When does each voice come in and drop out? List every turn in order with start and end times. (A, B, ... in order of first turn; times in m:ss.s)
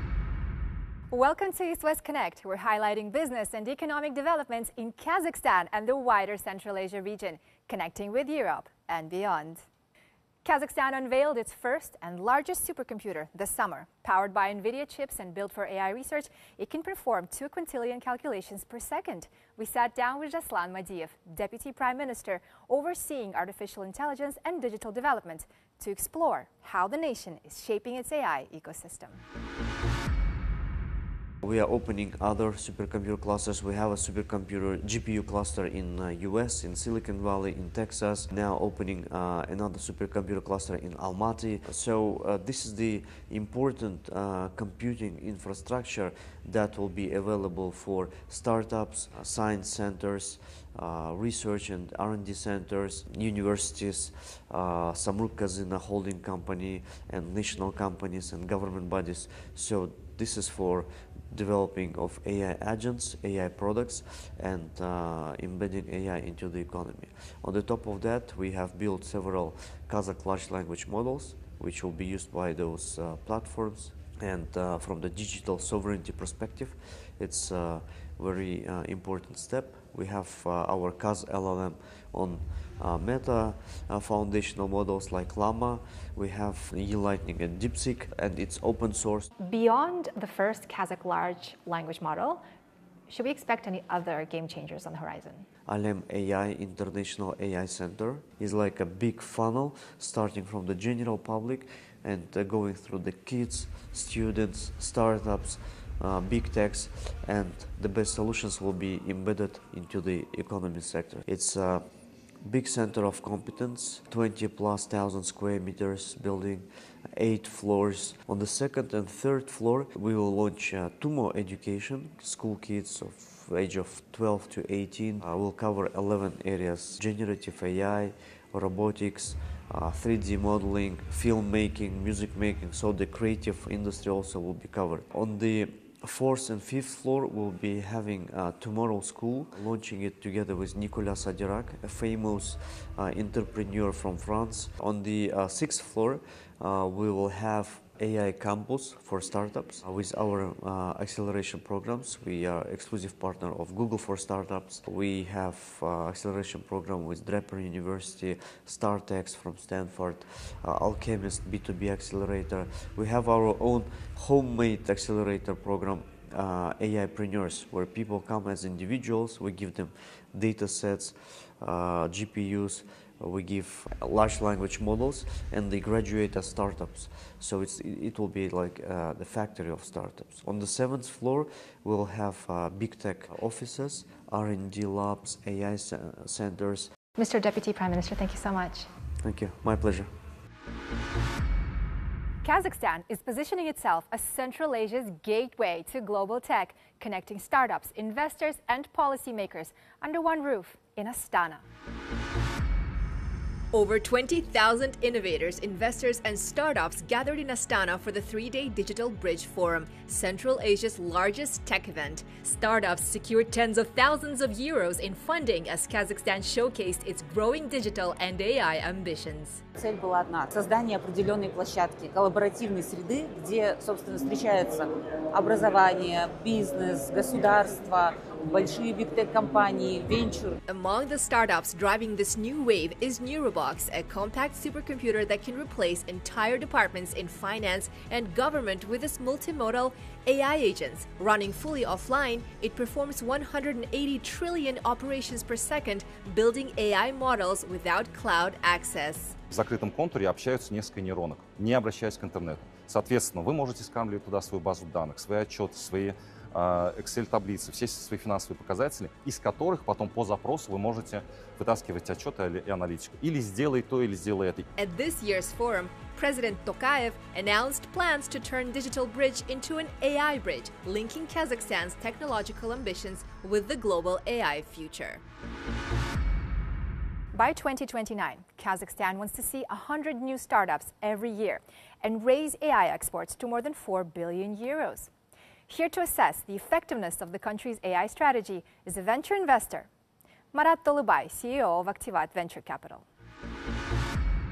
0:01.1-0:09.6 A
0:10.4-0:29.2 A
0:31.4-1:29.3 B
1:29.4-1:32.4 A
1:33.1-1:35.5 A
1:35.7-1:51.8 B
1:52.4-3:06.9 B
3:07.2-3:08.9 A
3:09.2-3:10.1 B
3:12.4-3:21.6 A
3:23.7-3:39.6 C
3:39.7-3:50.6 D
3:50.7-4:09.4 C
4:09.5-4:24.7 E
4:24.8-4:35.2 C
4:37.3-4:45.1 A
4:45.7-4:49.9 A
4:50.5-4:53.0 A